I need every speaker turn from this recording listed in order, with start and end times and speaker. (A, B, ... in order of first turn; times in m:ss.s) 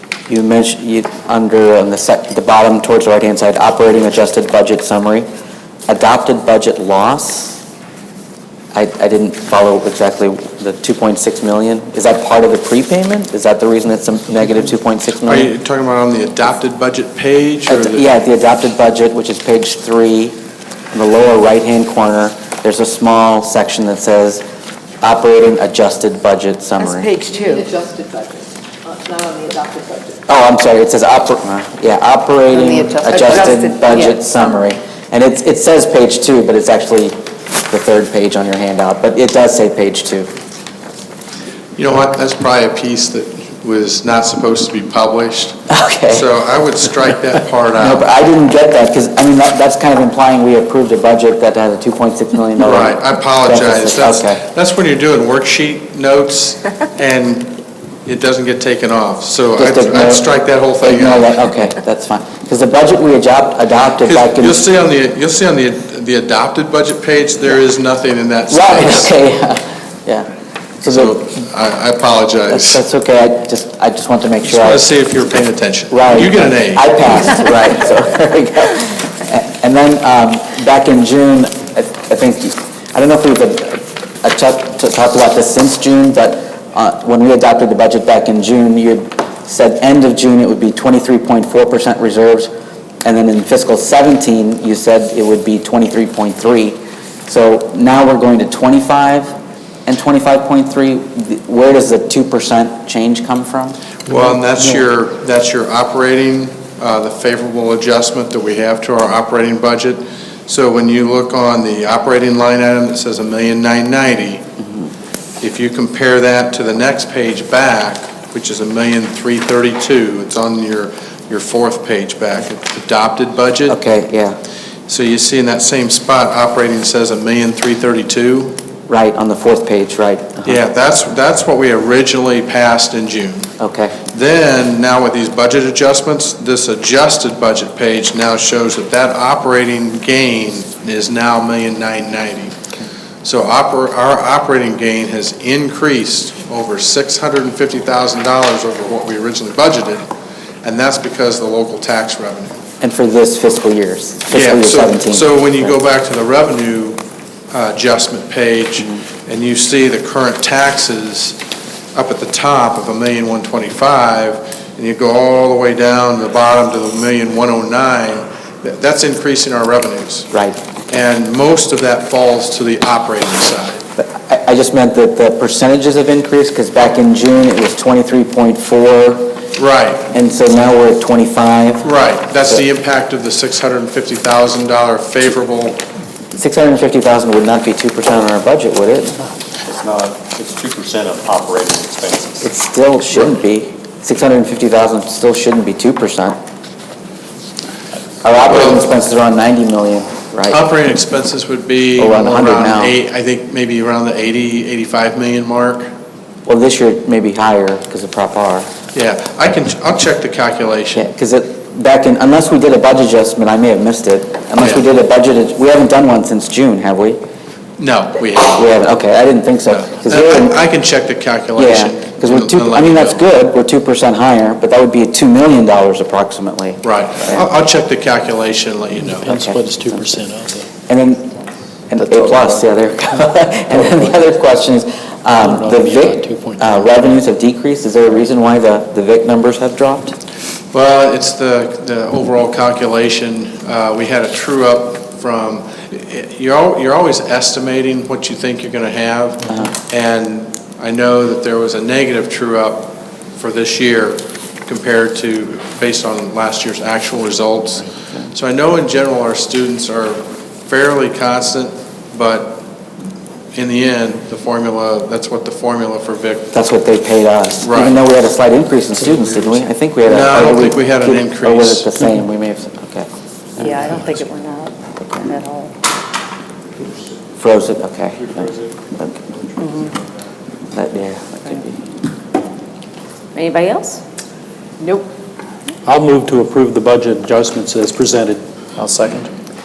0:00.3-0:05.3 A
0:05.9-0:07.6 A
0:08.7-0:15.5 A
0:15.2-0:18.1 B
0:17.7-0:20.4 A
0:20.9-0:24.4 A
0:25.0-0:27.1 A
0:26.8-0:27.7 C
0:27.2-0:30.2 D
0:30.3-0:37.2 A
0:32.7-0:34.1 D
0:33.2-0:33.4 C
0:37.7-0:40.3 A
0:41.8-0:45.6 B
0:45.7-0:46.2 A
0:46.1-0:48.1 B
0:47.8-0:54.4 A
0:52.6-1:01.4 B
0:59.6-1:00.2 A
1:00.8-1:04.6 A
1:04.0-1:09.1 B
1:08.5-1:10.3 A
1:10.8-1:11.4 A
1:10.9-1:12.8 B
1:12.5-1:14.8 A
1:14.4-1:16.9 B
1:15.9-1:32.5 A
1:33.0-1:39.3 A
1:39.8-1:43.8 A
1:44.1-1:54.4 B
1:55.4-2:03.8 B
2:03.7-2:04.4 A
2:04.9-2:08.6 B
2:08.9-2:10.6 A
2:10.4-2:13.5 B
2:13.6-2:14.0 A
2:14.1-2:22.6 B
2:23.2-2:30.1 B
2:30.6-2:32.6 B
2:32.8-2:35.8 A
2:34.3-2:41.4 B
2:41.9-2:50.3 B
2:50.3-2:50.6 A
2:50.9-2:53.8 B
2:54.0-2:59.4 A
2:59.5-3:00.1 B
3:00.1-3:01.9 A
3:01.8-3:05.8 B
3:06.4-3:09.2 A
3:09.6-3:12.4 E
3:12.4-3:16.4 A
3:18.2-3:20.6 A
3:20.5-3:25.9 B
3:22.0-3:23.0 A
3:26.4-3:28.7 A
3:28.9-3:31.1 B
3:30.9-3:37.2 A
3:37.8-3:38.7 B
3:38.5-3:40.6 A
3:39.7-3:43.2 B
3:41.6-3:47.4 A
3:46.8-3:49.3 B
3:49.0-3:50.7 F
3:49.2-3:50.0 A
3:50.9-3:51.4 A
3:51.9-4:00.2 A
3:52.0-3:52.6 F
3:53.7-3:54.2 F
3:55.4-3:56.9 F
4:00.7-4:22.6 B
4:23.5-4:26.5 B
4:26.5-4:33.1 A
4:27.6-4:28.0 B
4:29.0-4:29.6 F
4:30.0-4:31.9 B
4:33.6-4:35.7 C
4:33.6-4:33.9 F
4:37.4-4:39.2 A
4:40.7-4:41.8 A
4:43.3-4:44.0 C
4:45.8-4:49.3 F